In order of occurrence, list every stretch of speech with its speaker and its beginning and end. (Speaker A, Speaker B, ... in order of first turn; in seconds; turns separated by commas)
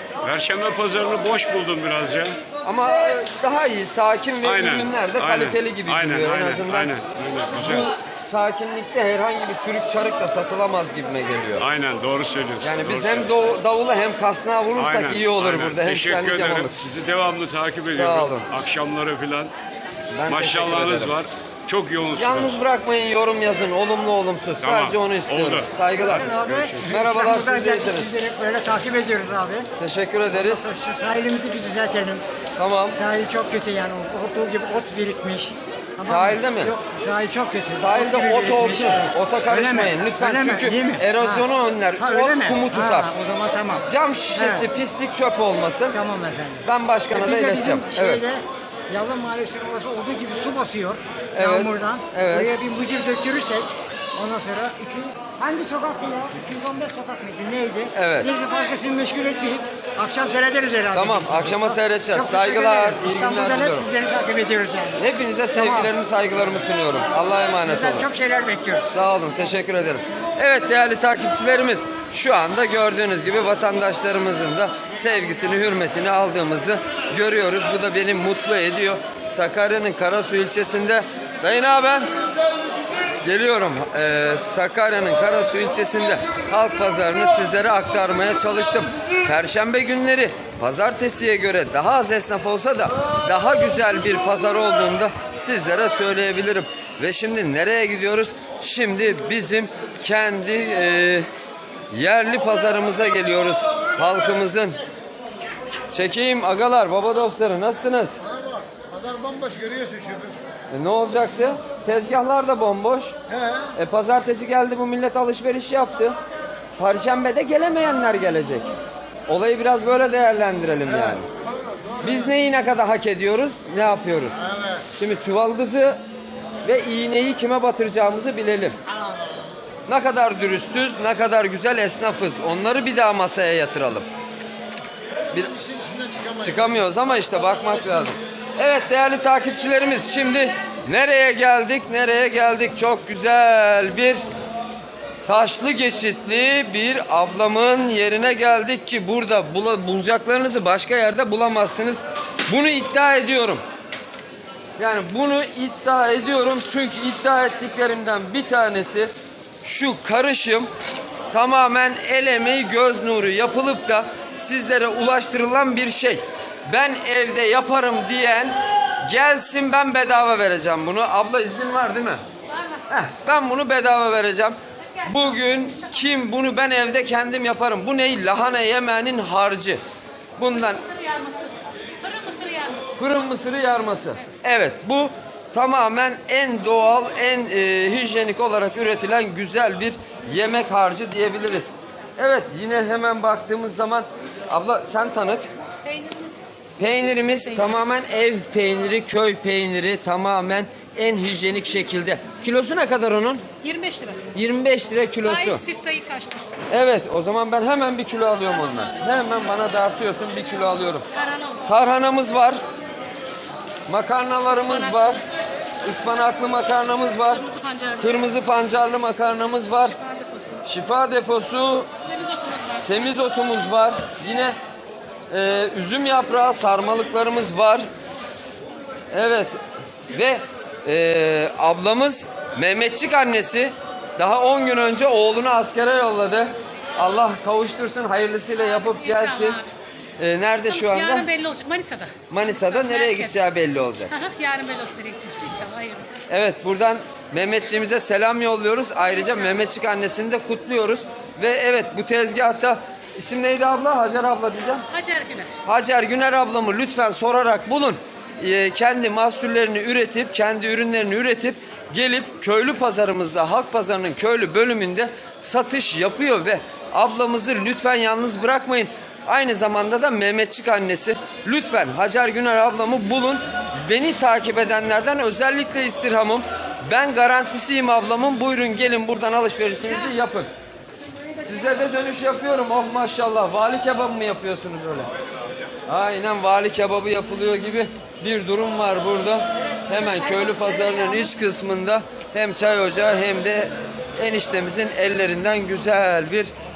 Speaker A: 0.2-2.4, Speaker B: 2.6-6.9, Speaker A: 4.4-7.9, Speaker B: 7.6-11.7, Speaker A: 11.6-13.3, Speaker B: 12.6-16.8, Speaker A: 14.8-19.5, Speaker B: 17.9-18.5, Speaker B: 20.1-21.1, Speaker A: 20.3-22.5, Speaker B: 22.1-26.2, Speaker A: 24.6-26.9, Speaker C: 26.0-29.7, Speaker B: 26.9-28.1, Speaker B: 29.8-30.7, Speaker C: 30.3-32.2, Speaker B: 32.6-33.0, Speaker C: 32.9-41.5, Speaker B: 36.0-36.7, Speaker B: 37.7-43.1, Speaker C: 42.0-44.6, Speaker B: 43.9-46.0, Speaker C: 45.9-65.0, Speaker B: 46.6-48.2, Speaker B: 51.4-52.5, Speaker B: 57.9-58.3, Speaker B: 60.9-63.9, Speaker B: 65.0-68.1, Speaker C: 65.5-65.9, Speaker C: 67.5-68.8, Speaker B: 68.9-82.1, Speaker B: 83.2-101.3, Speaker B: 101.9-104.8, Speaker B: 105.9-108.2, Speaker D: 108.3-110.3, Speaker B: 110.7-113.2, Speaker D: 113.3-113.7, Speaker B: 113.8-116.2, Speaker B: 116.8-118.7, Speaker B: 119.3-121.3, Speaker B: 122.0-126.0, Speaker B: 126.6-128.8, Speaker B: 129.9-134.1, Speaker B: 135.3-135.6, Speaker D: 135.6-136.3, Speaker B: 136.3-144.2, Speaker B: 145.3-153.6, Speaker B: 154.8-159.1, Speaker B: 159.6-160.7, Speaker B: 161.3-172.2, Speaker E: 172.5-172.8, Speaker B: 172.9-179.8, Speaker B: 180.4-180.8, Speaker E: 180.8-182.8, Speaker B: 183.0-195.5, Speaker E: 195.8-196.4, Speaker B: 196.8-203.5, Speaker E: 203.6-204.2, Speaker B: 204.3-205.6, Speaker E: 205.2-206.4, Speaker B: 206.7-211.1, Speaker E: 211.2-211.6, Speaker B: 211.7-212.6, Speaker B: 213.9-215.2, Speaker E: 214.7-215.2, Speaker B: 215.8-217.4, Speaker E: 217.3-218.3, Speaker B: 218.0-220.0, Speaker E: 219.9-220.6, Speaker B: 220.6-221.9, Speaker E: 222.1-222.9, Speaker B: 222.8-224.6, Speaker B: 225.3-227.9, Speaker B: 229.1-229.6, Speaker B: 230.1-239.6, Speaker E: 238.8-239.7, Speaker B: 240.2-241.3, Speaker E: 240.7-243.3, Speaker B: 242.3-244.1, Speaker E: 244.1-246.1, Speaker B: 246.3-254.8, Speaker E: 254.9-255.5, Speaker B: 255.7-280.5, Speaker B: 281.4-285.1, Speaker B: 285.9-296.5, Speaker C: 289.9-290.4